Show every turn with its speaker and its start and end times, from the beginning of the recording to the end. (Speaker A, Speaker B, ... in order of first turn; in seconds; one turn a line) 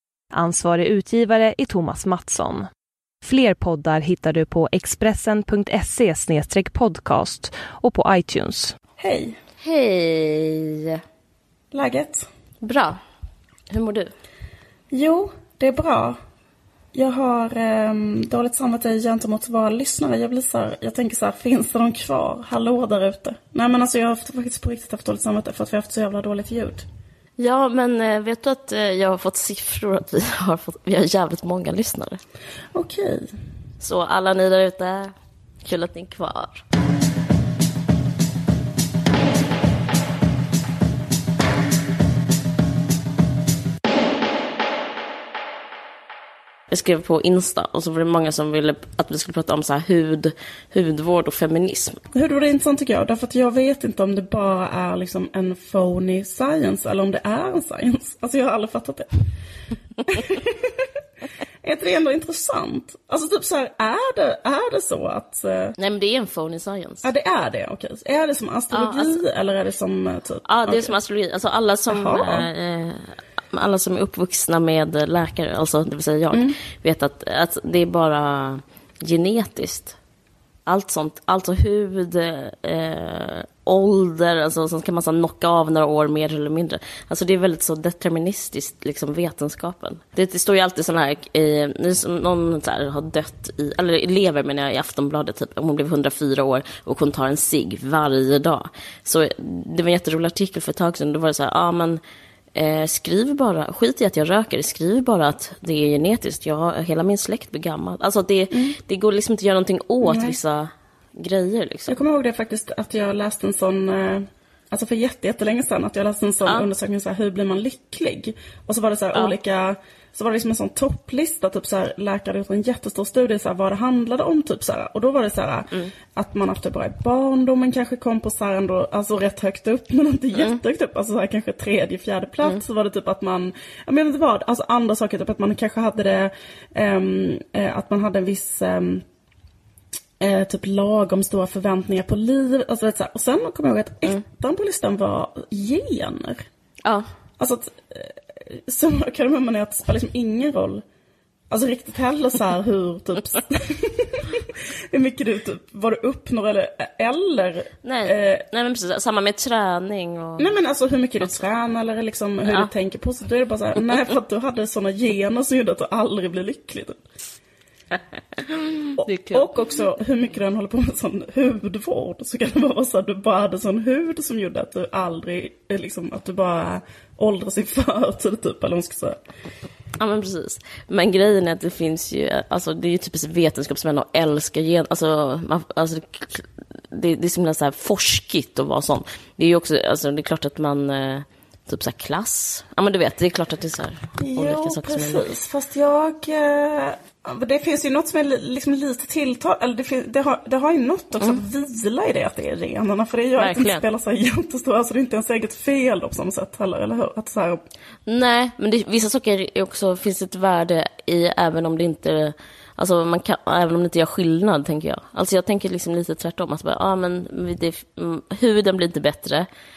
Speaker A: 0.3-2.7
Speaker A: 3.2-8.8
Speaker B: 9.0-9.4
Speaker C: 9.6-11.0
Speaker B: 11.7-12.3
Speaker C: 12.6-13.0
Speaker C: 13.7-14.1
Speaker B: 14.9-16.2
Speaker B: 16.9-26.9
Speaker C: 27.4-32.2
Speaker B: 32.7-33.4
Speaker C: 33.8-35.1
Speaker C: 35.6-36.6
Speaker C: 46.7-52.0
Speaker B: 52.1-59.3
Speaker B: 60.0-60.9
Speaker B: 61.6-65.8
Speaker C: 65.8-67.1
Speaker B: 67.0-71.0
Speaker C: 68.7-69.2
Speaker C: 70.5-80.0
Speaker B: 71.9-72.5
Speaker B: 76.3-76.6
Speaker C: 80.7-102.0
Speaker C: 102.5-112.0
Speaker B: 108.5-108.8
Speaker B: 110.0-110.4
Speaker B: 111.9-139.1
Speaker C: 130.3-130.6
Speaker B: 140.2-146.5
Speaker B: 147.4-150.8
Speaker B: 151.5-158.4
Speaker C: 157.8-160.6
Speaker B: 160.4-167.0
Speaker C: 168.7-169.4
Speaker B: 169.0-179.2
Speaker C: 180.0-195.3
Speaker B: 194.2-207.6
Speaker C: 203.4-203.8
Speaker C: 208.1-219.5